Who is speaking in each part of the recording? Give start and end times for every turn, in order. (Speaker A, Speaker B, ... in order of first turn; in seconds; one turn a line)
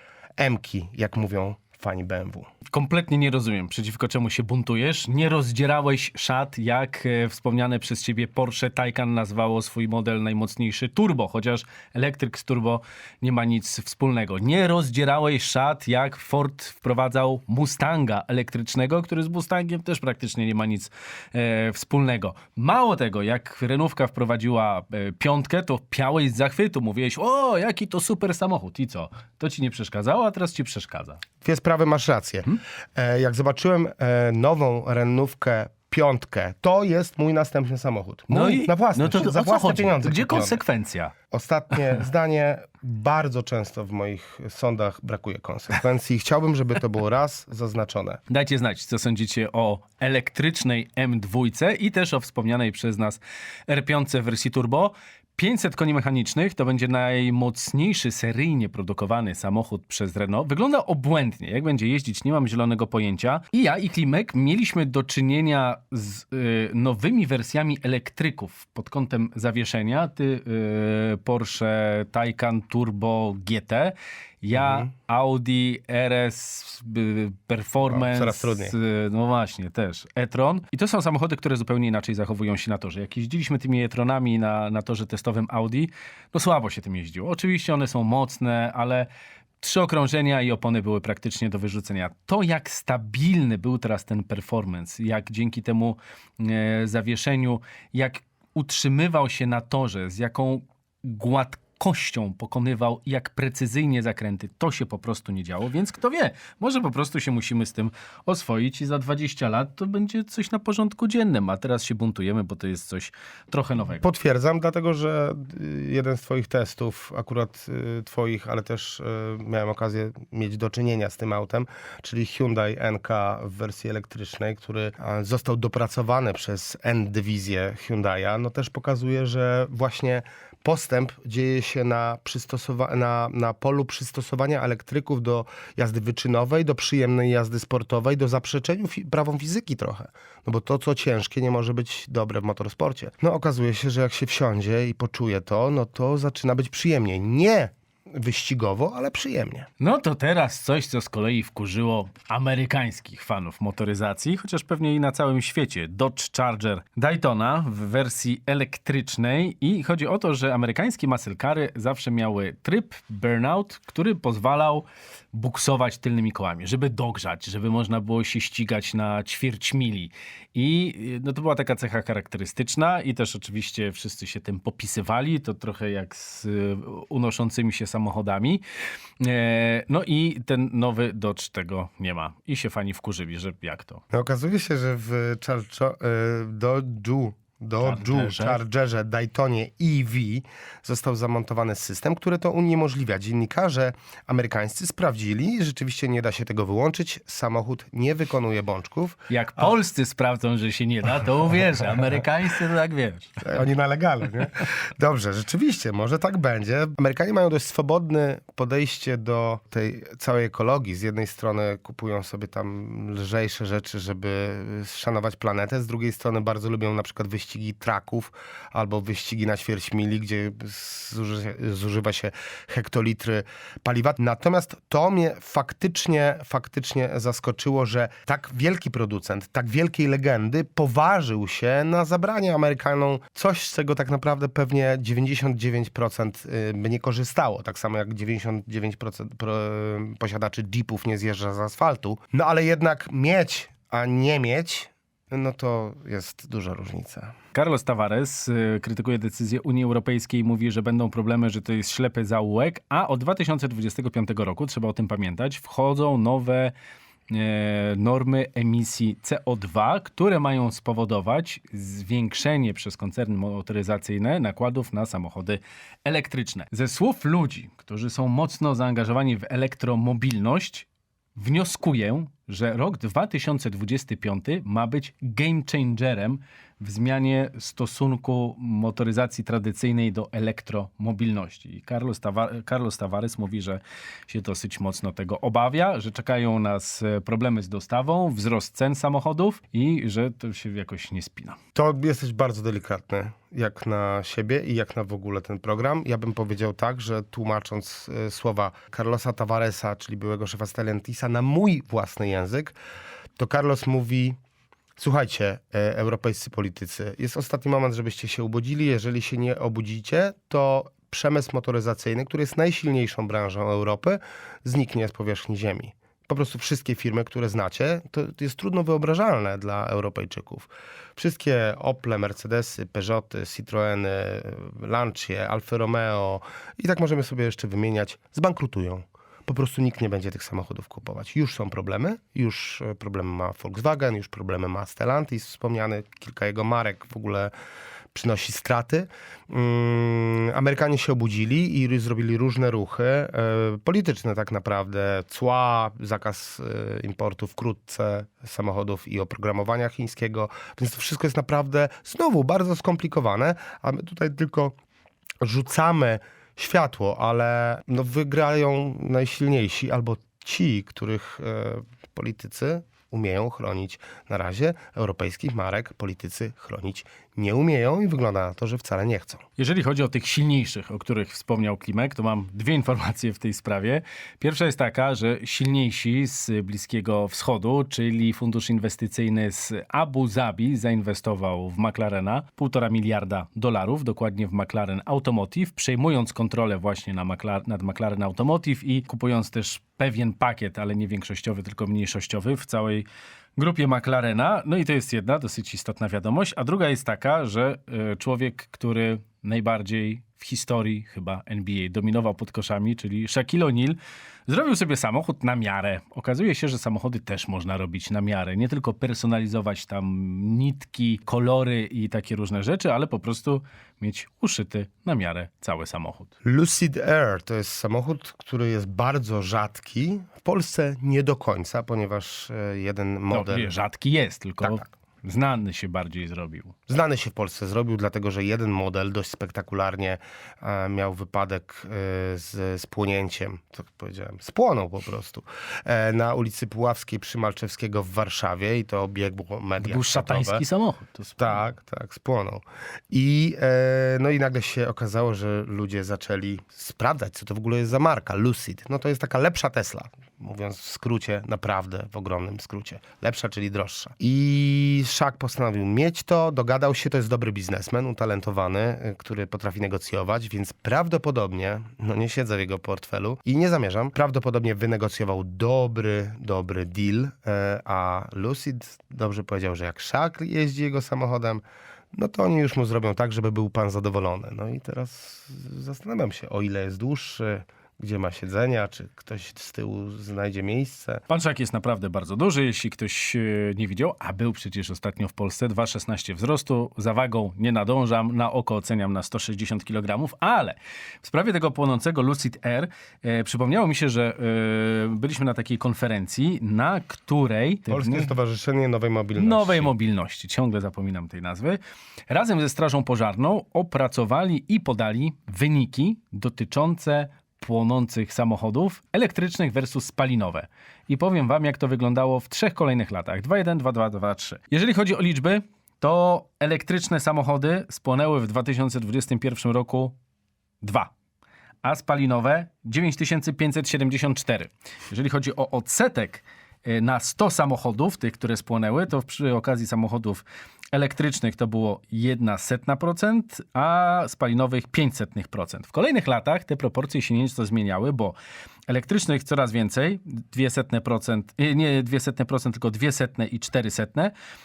Speaker A: 0.4-2.5
Speaker B: 2.7-31.2
Speaker A: 31.4-40.6
Speaker B: 38.3-41.1
Speaker A: 41.3-48.2
Speaker B: 48.3-89.1
Speaker A: 74.6-74.9
Speaker A: 77.8-78.7
Speaker B: 89.6-114.0
Speaker A: 114.0-149.7
Speaker B: 149.8-178.6
Speaker B: 179.2-184.0
Speaker A: 184.1-199.7
Speaker B: 187.8-188.6
Speaker B: 199.3-203.4
Speaker A: 203.4-247.3
Speaker B: 247.5-256.7
Speaker B: 257.3-291.6
Speaker A: 291.7-302.8
Speaker A: 303.4-304.4
Speaker A: 305.0-337.5
Speaker A: 338.1-354.7
Speaker A: 355.4-369.4
Speaker B: 369.6-393.0
Speaker B: 393.6-416.3
Speaker A: 416.4-423.7
Speaker B: 423.3-426.7
Speaker A: 424.6-424.9
Speaker A: 426.9-440.6
Speaker B: 439.8-441.6
Speaker A: 441.4-471.6
Speaker A: 472.1-481.2
Speaker B: 481.3-498.3
Speaker A: 497.9-499.9
Speaker B: 499.4-520.1
Speaker B: 520.8-521.1
Speaker B: 521.8-538.4
Speaker B: 538.9-544.3